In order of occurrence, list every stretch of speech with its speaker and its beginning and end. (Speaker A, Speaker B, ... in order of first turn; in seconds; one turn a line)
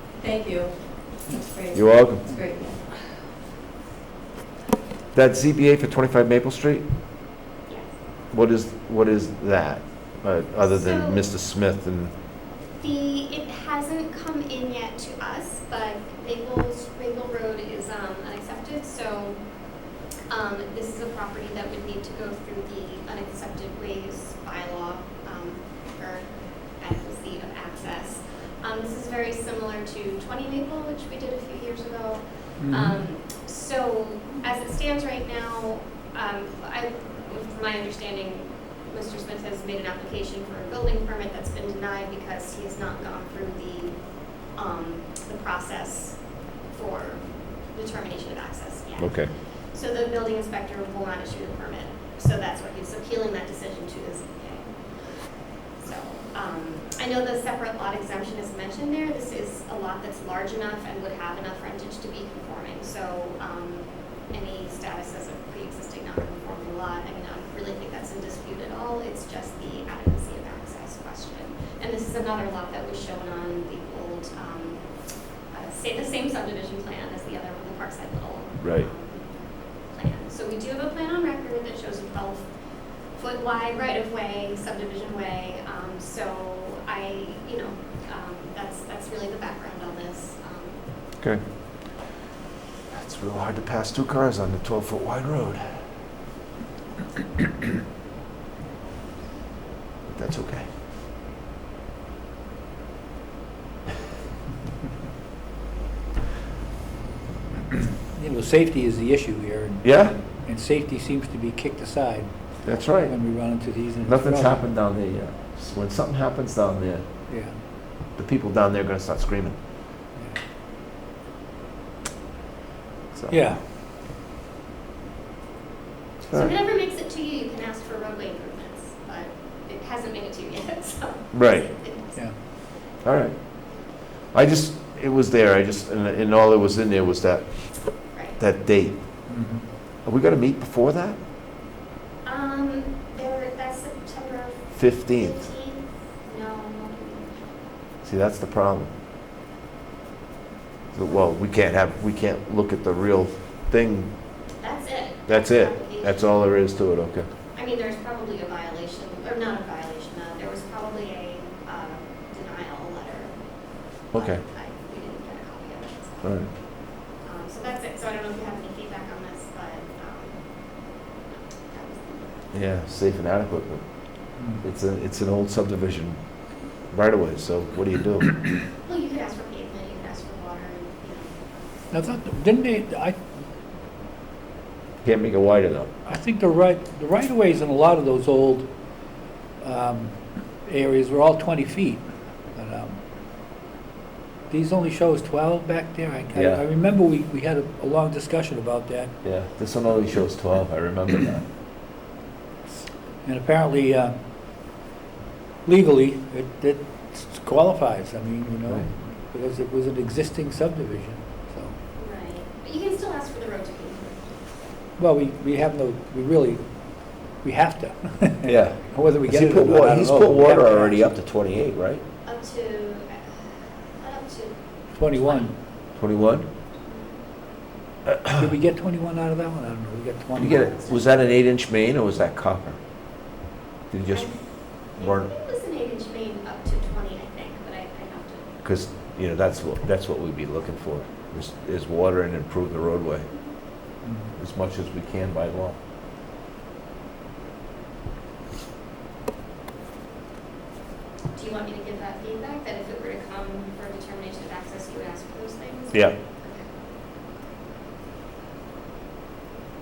Speaker A: 0.2-2.8
Speaker B: 1.7-2.3
Speaker B: 5.1-6.9
Speaker B: 8.3-12.1
Speaker C: 10.6-11.3
Speaker C: 12.8-19.4
Speaker C: 20.3-26.3
Speaker C: 26.8-74.9
Speaker D: 32.6-33.0
Speaker B: 49.0-49.3
Speaker C: 75.5-79.3
Speaker B: 78.6-78.9
Speaker C: 79.9-82.5
Speaker C: 83.1-90.8
Speaker B: 92.9-95.8
Speaker B: 100.1-100.7
Speaker D: 108.1-114.6
Speaker B: 109.8-110.2
Speaker B: 112.6-117.0
Speaker D: 117.3-117.5
Speaker B: 118.1-119.6
Speaker B: 123.1-123.4
Speaker D: 123.3-123.6
Speaker B: 126.2-126.5
Speaker C: 126.3-132.2
Speaker B: 131.3-131.7
Speaker B: 133.0-133.4
Speaker B: 134.3-139.0
Speaker D: 139.3-139.6
Speaker B: 140.1-141.2
Speaker C: 142.2-147.6
Speaker B: 144.7-145.5
Speaker B: 148.0-148.9
Speaker B: 150.9-154.1
Speaker C: 154.6-156.4
Speaker B: 155.3-157.3
Speaker C: 157.6-163.4
Speaker C: 163.9-172.5
Speaker B: 164.1-164.4
Speaker B: 166.2-166.5
Speaker B: 172.5-173.9
Speaker D: 174.4-174.6
Speaker B: 174.6-176.2
Speaker B: 176.9-178.4
Speaker C: 178.8-181.4
Speaker D: 181.9-183.2
Speaker B: 185.0-185.9
Speaker D: 186.1-188.7
Speaker D: 189.6-192.0
Speaker D: 192.6-193.0
Speaker D: 194.5-199.1
Speaker B: 196.3-196.6
Speaker B: 199.2-201.4
Speaker D: 203.2-204.7
Speaker D: 205.7-211.7
Speaker C: 212.0-214.3
Speaker D: 215.0-221.0
Speaker B: 218.4-222.0
Speaker C: 222.2-224.6
Speaker D: 224.9-225.5
Speaker C: 225.1-225.5
Speaker B: 226.0-226.5
Speaker C: 226.8-227.2
Speaker B: 228.1-228.4
Speaker D: 228.3-230.7
Speaker B: 230.4-232.8
Speaker C: 230.5-231.0
Speaker B: 233.9-234.3
Speaker C: 234.1-238.5
Speaker B: 235.0-235.3
Speaker B: 238.6-243.3
Speaker D: 244.0-244.3
Speaker B: 244.4-245.8
Speaker C: 251.3-256.7